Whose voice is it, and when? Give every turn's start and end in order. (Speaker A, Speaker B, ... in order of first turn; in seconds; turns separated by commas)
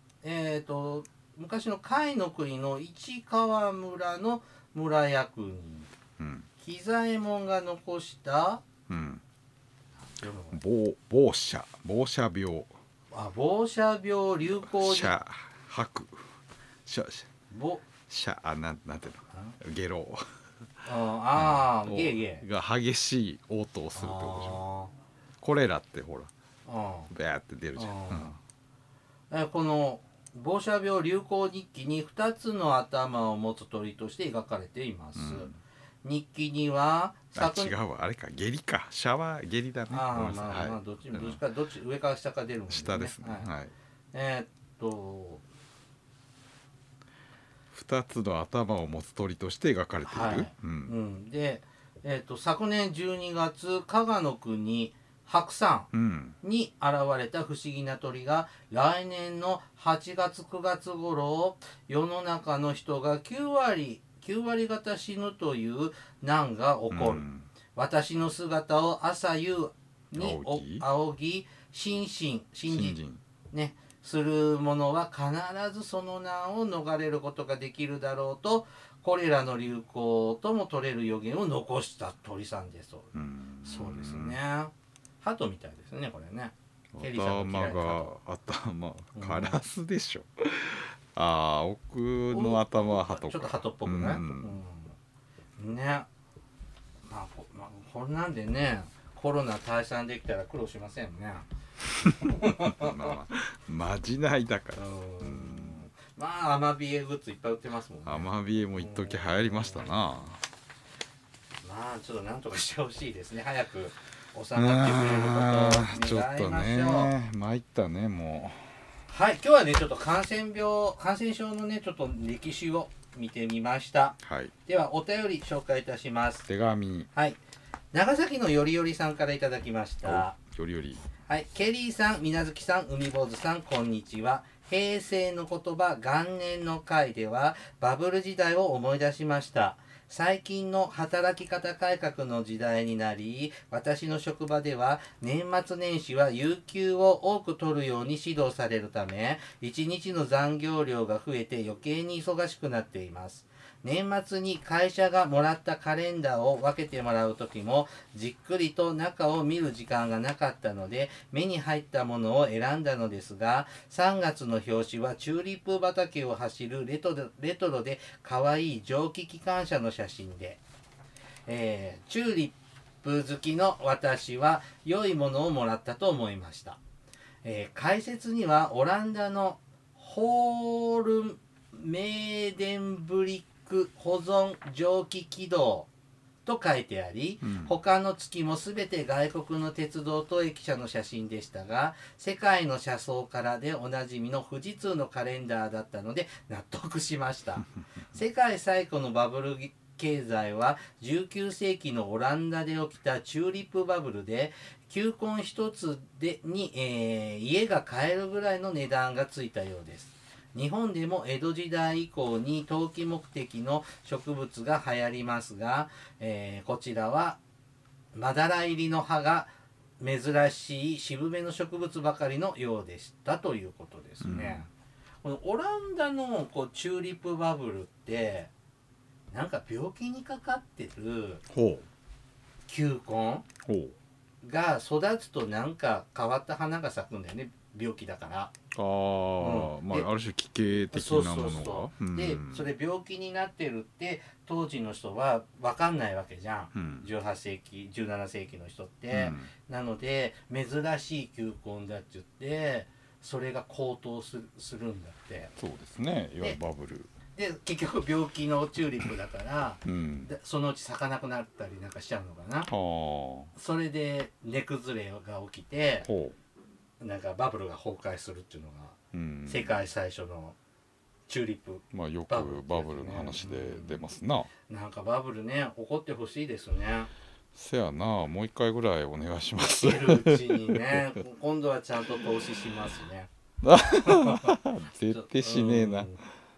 Speaker A: 0.2-5.9, Speaker B: 6.2-6.5, Speaker A: 6.6-8.6, Speaker B: 8.9-9.2, Speaker A: 10.0-10.6, Speaker B: 10.5-12.8, Speaker A: 13.1-15.1, Speaker B: 14.5-17.3, Speaker A: 17.5-17.8, Speaker B: 18.1-20.3, Speaker A: 20.8-22.4, Speaker B: 21.3-24.6, Speaker A: 23.9-24.9, Speaker B: 25.4-26.3, Speaker A: 26.6-27.1, Speaker B: 27.1-28.4, Speaker A: 27.8-28.4, Speaker A: 29.3-35.5, Speaker B: 35.1-35.6, Speaker A: 36.0-37.7, Speaker B: 37.3-41.4, Speaker A: 39.9-43.5, Speaker B: 42.7-43.7, Speaker A: 44.1-45.4, Speaker B: 47.7-50.9, Speaker A: 50.0-55.9, Speaker B: 55.9-56.4, Speaker A: 56.4-67.2, Speaker B: 66.9-67.5, Speaker A: 67.7-73.0, Speaker B: 70.1-70.8, Speaker B: 72.7-73.2, Speaker A: 73.5-83.1, Speaker B: 83.1-84.4, Speaker A: 83.6-88.1, Speaker B: 86.9-94.6, Speaker A: 89.1-89.6, Speaker A: 92.3-95.0, Speaker A: 95.6-96.1, Speaker A: 97.0-101.5, Speaker B: 102.0-105.8, Speaker A: 102.0-103.1, Speaker A: 104.7-109.9, Speaker B: 108.0-110.4, Speaker A: 111.6-117.1, Speaker B: 114.5-118.8, Speaker A: 119.1-126.5, Speaker B: 124.2-124.5, Speaker B: 126.5-127.1, Speaker A: 127.1-127.4, Speaker A: 127.9-130.3, Speaker B: 130.0-131.1, Speaker A: 131.2-170.6, Speaker A: 171.5-176.8, Speaker A: 177.4-185.9, Speaker A: 186.4-217.4, Speaker B: 187.4-187.7, Speaker A: 218.1-224.7, Speaker B: 224.2-224.7, Speaker A: 225.2-228.5, Speaker A: 229.3-231.4, Speaker B: 231.5-231.9, Speaker A: 232.7-233.4, Speaker B: 233.6-233.9, Speaker A: 234.4-238.5, Speaker B: 238.7-242.7, Speaker A: 239.4-240.1, Speaker A: 240.9-255.5, Speaker B: 246.7-247.1, Speaker B: 249.1-249.5, Speaker B: 255.6-257.1, Speaker A: 257.3-262.7, Speaker B: 259.8-260.3, Speaker B: 262.7-263.5, Speaker A: 263.5-266.1, Speaker B: 266.0-266.4, Speaker A: 267.0-270.6, Speaker B: 269.1-269.8, Speaker A: 271.3-274.0, Speaker B: 271.9-274.5, Speaker A: 274.7-277.1, Speaker B: 277.5-281.1, Speaker A: 279.8-283.3, Speaker B: 283.6-286.2, Speaker A: 283.9-284.6, Speaker A: 285.1-286.2